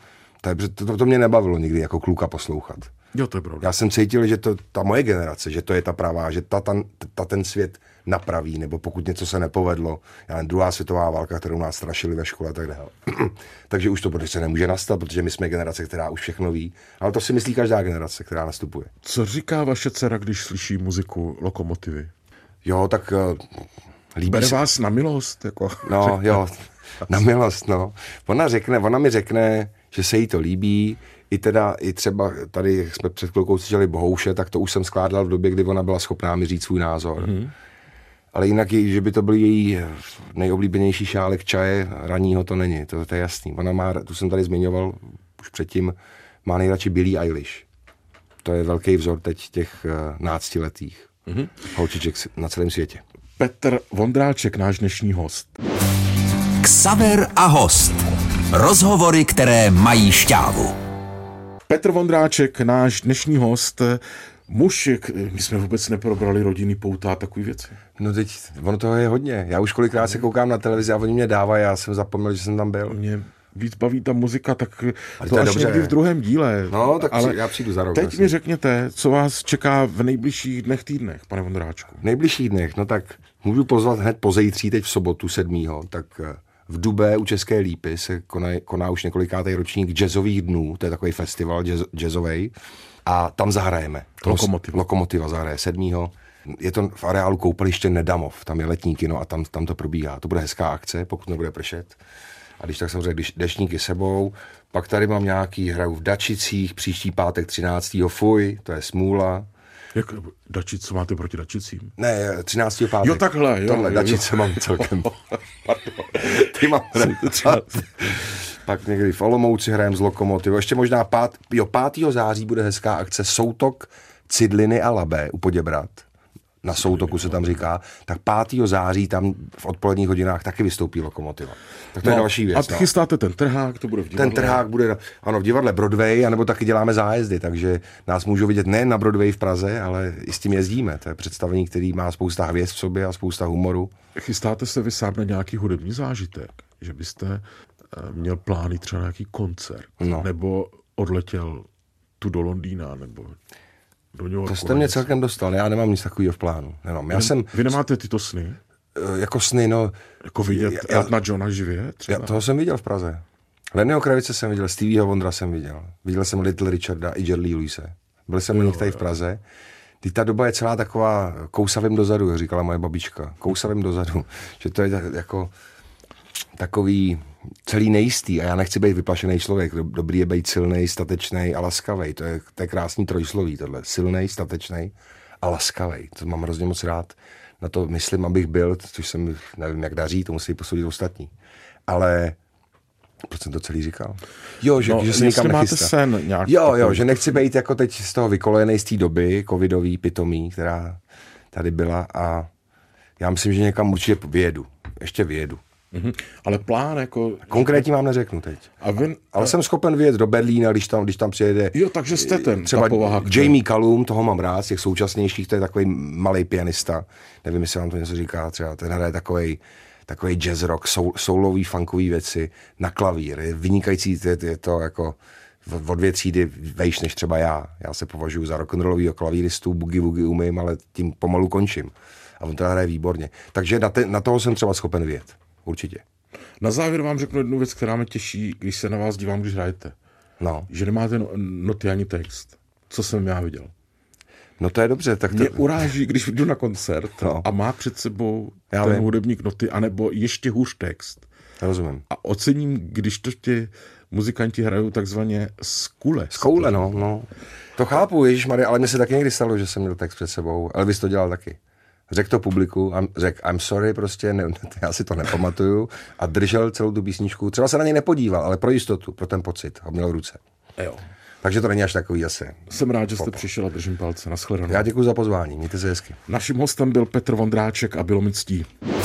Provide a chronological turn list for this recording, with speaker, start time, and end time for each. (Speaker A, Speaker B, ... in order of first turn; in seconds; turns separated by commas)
Speaker A: 0.4-2.9, Speaker B: 3.1-3.7, Speaker A: 3.6-18.9, Speaker B: 19.0-22.1, Speaker A: 22.6-24.6, Speaker B: 24.2-26.4, Speaker A: 25.8-37.4, Speaker B: 37.2-37.5, Speaker A: 38.3-47.6, Speaker A: 48.4-51.1, Speaker B: 51.3-51.5, Speaker A: 51.7-53.0, Speaker B: 53.4-55.5, Speaker C: 56.6-58.0, Speaker C: 58.5-60.8, Speaker B: 61.7-67.8, Speaker A: 68.0-73.0, Speaker B: 72.9-82.0, Speaker A: 75.2-76.0, Speaker A: 76.7-78.4, Speaker A: 82.0-92.5, Speaker A: 93.0-102.0, Speaker B: 94.2-94.8, Speaker A: 102.6-109.5, Speaker B: 109.9-111.9, Speaker A: 112.0-115.1, Speaker B: 113.0-118.1, Speaker A: 116.2-126.1, Speaker A: 126.6-132.9, Speaker B: 126.8-127.5, Speaker B: 132.0-134.7, Speaker A: 134.1-143.9, Speaker B: 144.2-151.7, Speaker A: 150.0-150.3, Speaker B: 152.2-153.4, Speaker B: 154.1-155.1, Speaker A: 154.5-157.8, Speaker B: 157.1-158.6, Speaker A: 158.9-159.9, Speaker B: 160.3-162.4, Speaker A: 160.5-161.1, Speaker A: 162.1-169.4, Speaker A: 170.0-175.5, Speaker A: 176.6-191.3, Speaker A: 191.9-192.4, Speaker A: 193.2-201.0, Speaker B: 194.8-197.3, Speaker A: 201.5-202.5, Speaker A: 203.2-205.6, Speaker B: 205.9-207.9, Speaker A: 207.5-208.7, Speaker B: 208.8-209.6, Speaker A: 209.3-236.0, Speaker B: 211.7-213.6, Speaker B: 236.6-239.9, Speaker A: 240.4-240.7, Speaker B: 240.7-243.7, Speaker A: 244.6-245.7, Speaker B: 245.3-251.3, Speaker A: 247.2-247.5, Speaker A: 248.7-249.1, Speaker A: 251.6-252.0, Speaker B: 252.1-257.0, Speaker A: 256.3-261.6, Speaker A: 262.1-270.4, Speaker B: 270.8-271.0, Speaker A: 271.4-273.4, Speaker B: 272.7-274.9, Speaker A: 274.7-276.2, Speaker B: 276.3-278.7